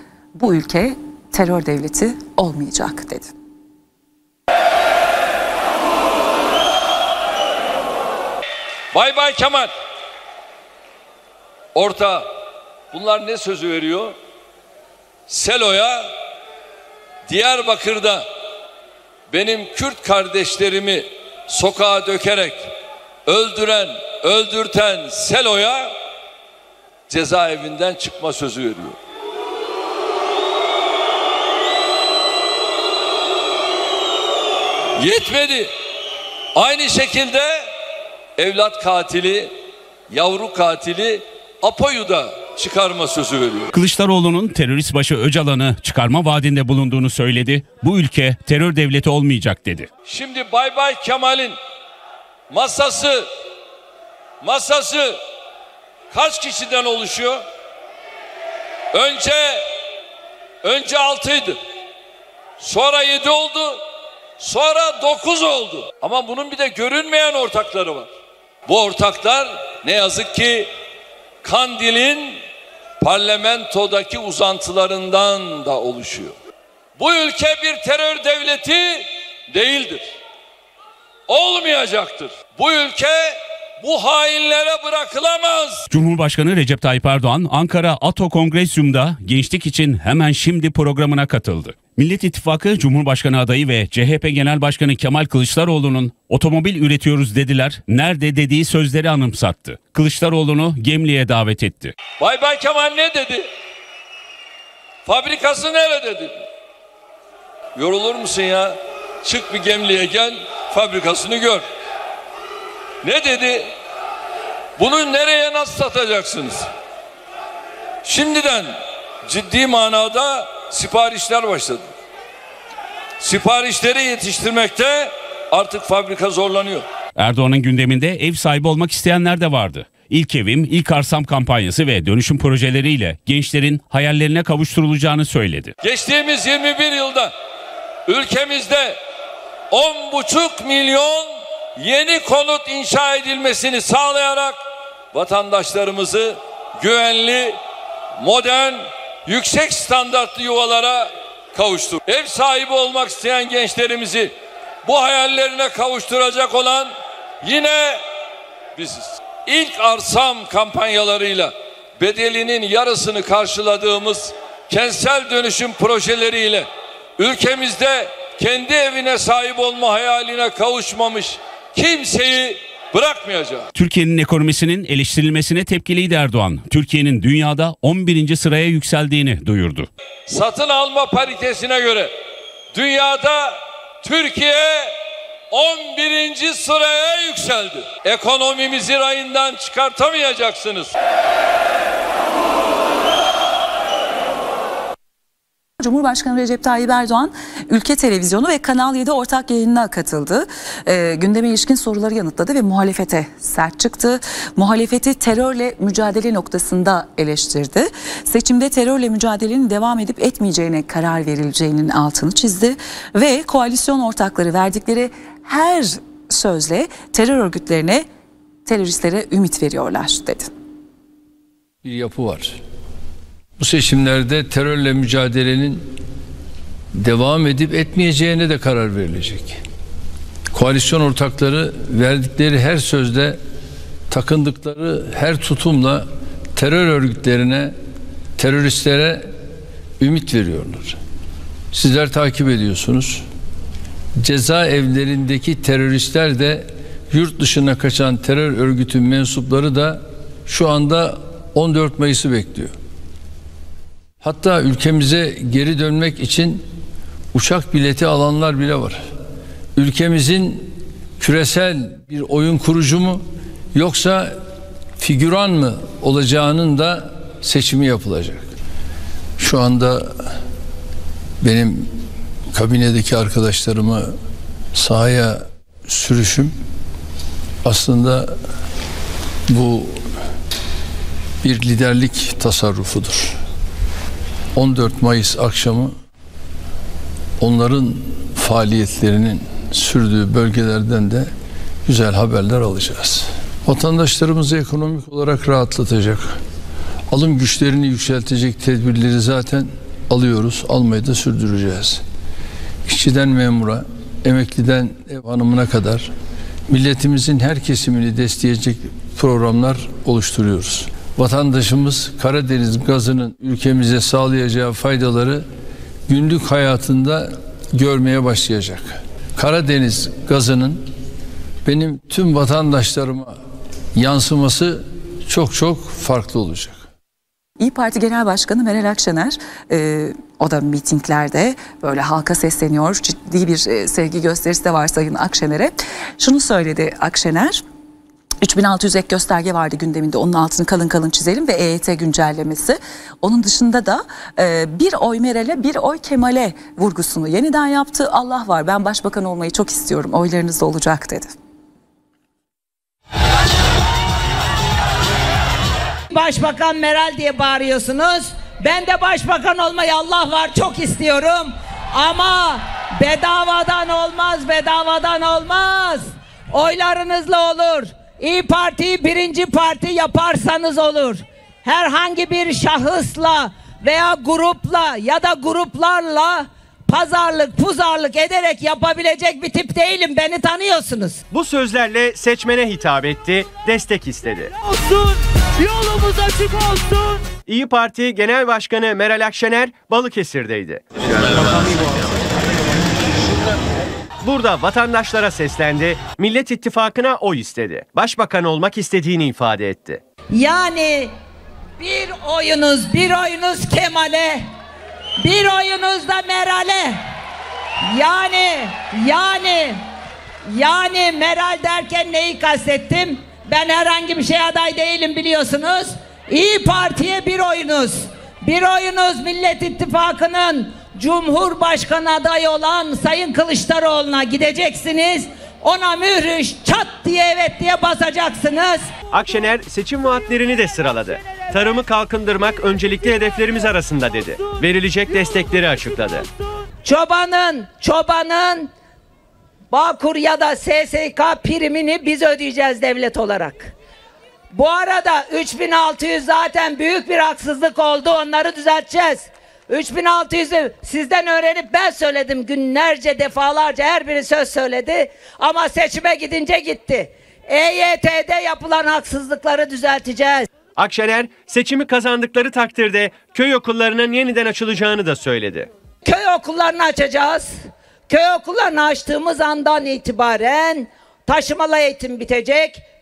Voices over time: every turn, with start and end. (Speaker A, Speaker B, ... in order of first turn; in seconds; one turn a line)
Speaker A: 0.3-3.3
Speaker B: 8.9-9.7
Speaker B: 11.7-12.2
Speaker B: 12.9-14.1
Speaker B: 15.3-16.1
Speaker B: 17.3-18.2
Speaker B: 19.3-22.7
Speaker B: 23.2-25.9
Speaker B: 27.1-29.0
Speaker B: 35.0-35.7
Speaker B: 36.5-37.7
Speaker B: 38.4-39.5
Speaker B: 40.1-43.7
Speaker C: 43.7-49.9
Speaker B: 50.1-51.6
Speaker B: 52.5-53.3
Speaker B: 54.4-55.2
Speaker B: 56.1-57.4
Speaker B: 58.9-59.6
Speaker B: 60.6-61.6
Speaker B: 62.6-63.8
Speaker B: 64.4-68.1
Speaker B: 68.7-70.7
Speaker B: 71.4-72.4
Speaker B: 73.0-76.3
Speaker B: 77.0-80.1
Speaker B: 81.3-85.8
Speaker C: 85.9-101.9
Speaker B: 102.2-103.5
Speaker B: 105.0-106.3
Speaker B: 107.8-111.6
Speaker B: 113.0-113.7
Speaker B: 114.8-116.7
Speaker B: 118.0-118.7
Speaker B: 119.2-121.8
Speaker B: 123.2-126.8
Speaker C: 127.2-135.7
Speaker B: 135.8-137.3
Speaker B: 138.1-139.0
Speaker B: 139.7-144.6
Speaker B: 145.1-147.6
Speaker B: 148.2-154.3
Speaker B: 154.8-156.9
Speaker B: 157.4-158.0
Speaker B: 158.8-166.7
Speaker B: 167.2-173.7
Speaker C: 173.7-179.9
Speaker B: 180.3-182.1
Speaker B: 182.7-184.9
Speaker B: 185.5-190.9
Speaker A: 195.8-218.0
Speaker A: 218.7-220.5
Speaker D: 221.8-222.6
Speaker D: 223.6-225.9
Speaker D: 226.9-229.6
Speaker D: 230.5-233.4
Speaker D: 234.1-237.7
Speaker D: 238.4-239.3
Speaker D: 240.0-241.0
Speaker D: 241.7-243.2
Speaker D: 244.2-252.7
Speaker D: 254.2-256.6
Speaker D: 257.3-259.0
Speaker D: 259.8-263.2
Speaker D: 263.7-264.3
Speaker D: 265.0-268.5
Speaker D: 269.4-270.3
Speaker D: 271.4-271.9
Speaker D: 272.5-274.1
Speaker D: 274.7-276.5
Speaker D: 277.6-278.4
Speaker D: 279.5-280.0
Speaker D: 281.4-283.4
Speaker D: 284.5-285.9
Speaker D: 287.4-291.3
Speaker D: 291.9-296.4
Speaker D: 297.1-302.0
Speaker D: 302.9-306.1
Speaker D: 306.7-315.4
Speaker D: 316.1-320.9
Speaker D: 321.6-323.4
Speaker D: 323.9-326.9
Speaker A: 327.6-337.6
Speaker A: 338.4-351.3
Speaker E: 356.1-381.2
Speaker F: 381.3-384.5
Speaker E: 385.8-386.9
Speaker F: 387.5-391.6
Speaker F: 394.2-400.0
Speaker E: 400.3-401.1
Speaker E: 401.8-404.4
Speaker E: 405.2-407.0
Speaker E: 407.9-409.8
Speaker E: 410.5-428.9
Speaker F: 429.1-436.2
Speaker E: 436.8-438.7
Speaker E: 439.7-443.7
Speaker E: 444.5-460.5
Speaker F: 460.8-465.7
Speaker E: 466.0-467.5
Speaker E: 468.1-472.8